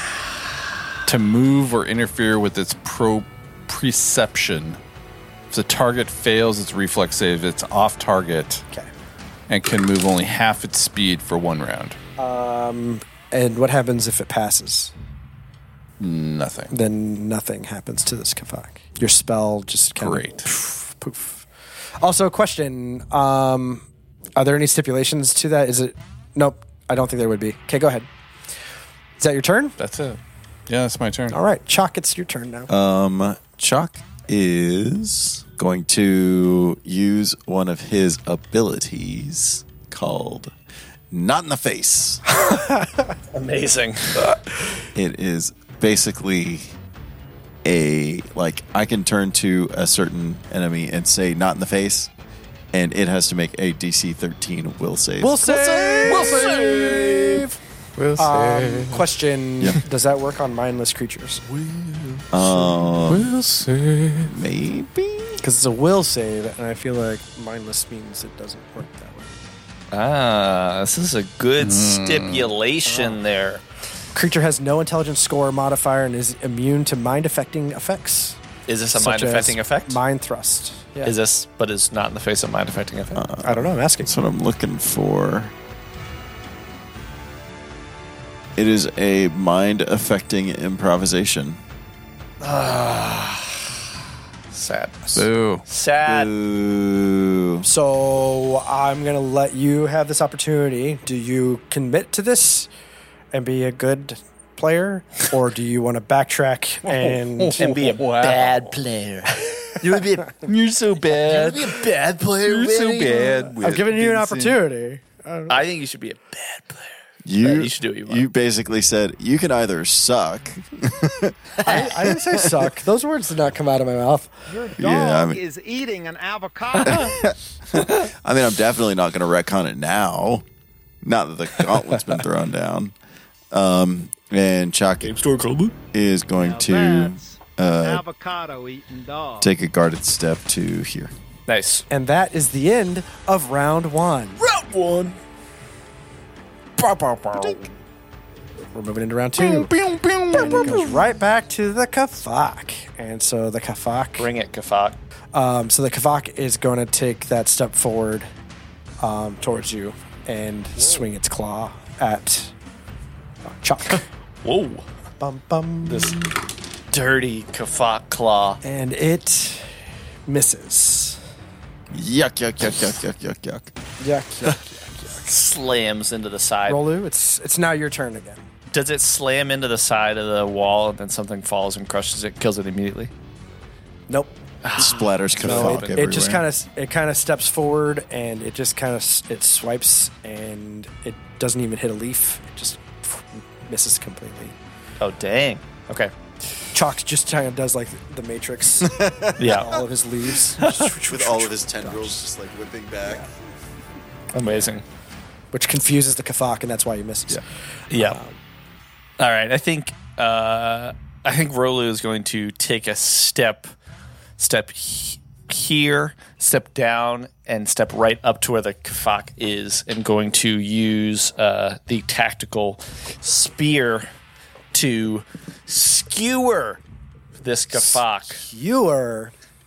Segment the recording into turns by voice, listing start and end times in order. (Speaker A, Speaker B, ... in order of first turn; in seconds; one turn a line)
Speaker A: 1.1-4.8
Speaker A: 5.5-8.7
Speaker A: 9.5-12.0
Speaker B: 12.2-14.9
Speaker A: 16.0-16.7
Speaker B: 16.7-21.4
Speaker A: 20.0-20.5
Speaker B: 22.0-23.8
Speaker B: 24.4-28.1
Speaker B: 29.2-29.8
Speaker A: 29.8-31.4
Speaker B: 31.3-32.7
Speaker C: 32.7-40.5
Speaker C: 41.1-42.2
Speaker B: 42.5-42.9
Speaker D: 43.3-44.3
Speaker C: 45.0-46.8
Speaker C: 47.6-52.1
Speaker C: 52.7-56.3
Speaker B: 55.2-57.5
Speaker A: 56.0-57.4
Speaker E: 58.0-59.1
Speaker B: 58.2-61.4
Speaker A: 61.5-62.2
Speaker C: 62.3-63.3
Speaker E: 63.1-64.3
Speaker C: 64.2-65.4
Speaker B: 65.4-69.4
Speaker D: 69.9-73.6
Speaker A: 71.6-72.5
Speaker B: 72.9-73.2
Speaker B: 74.1-78.4
Speaker D: 78.7-80.0
Speaker B: 78.9-81.1
Speaker D: 81.0-83.2
Speaker C: 83.2-85.5
Speaker B: 83.4-84.1
Speaker C: 88.6-91.6
Speaker D: 92.4-93.7
Speaker D: 94.5-96.3
Speaker A: 95.1-95.6
Speaker C: 96.0-97.7
Speaker B: 97.7-102.7
Speaker B: 103.3-107.6
Speaker A: 106.9-108.7
Speaker D: 107.6-110.5
Speaker A: 110.4-114.6
Speaker D: 111.0-113.5
Speaker B: 113.6-115.6
Speaker D: 115.5-118.2
Speaker C: 117.2-122.7
Speaker B: 121.6-124.4
Speaker F: 124.5-127.3
Speaker C: 124.8-125.4
Speaker C: 126.8-130.4
Speaker C: 131.0-132.9
Speaker C: 133.5-135.2
Speaker D: 135.0-135.8
Speaker C: 135.9-138.1
Speaker F: 136.3-139.6
Speaker C: 139.4-141.1
Speaker D: 141.5-141.8
Speaker B: 141.9-144.4
Speaker A: 144.4-145.1
Speaker A: 146.9-147.6
Speaker B: 148.7-149.7
Speaker A: 149.4-151.0
Speaker B: 150.3-154.3
Speaker D: 154.2-155.0
Speaker B: 155.3-158.3
Speaker B: 159.0-162.5
Speaker B: 163.5-164.1
Speaker D: 164.4-164.9
Speaker B: 165.2-166.3
Speaker D: 165.8-166.2
Speaker D: 166.9-168.6
Speaker B: 168.6-169.7
Speaker B: 170.3-171.2
Speaker C: 171.9-173.7
Speaker B: 174.0-175.2
Speaker D: 175.2-176.8
Speaker B: 176.7-178.4
Speaker D: 178.7-183.1
Speaker B: 184.1-184.4
Speaker D: 184.6-186.0
Speaker C: 184.8-186.5
Speaker B: 185.4-194.6
Speaker D: 195.0-196.1
Speaker B: 196.7-202.2
Speaker C: 198.8-199.8
Speaker D: 199.4-199.8
Speaker D: 200.6-200.9
Speaker C: 200.6-203.3
Speaker D: 204.3-204.8
Speaker B: 205.5-207.4
Speaker D: 207.9-208.2
Speaker B: 207.9-208.4
Speaker D: 209.2-213.7
Speaker D: 214.4-224.1
Speaker D: 224.7-226.8
Speaker D: 227.4-228.4
Speaker B: 228.4-229.3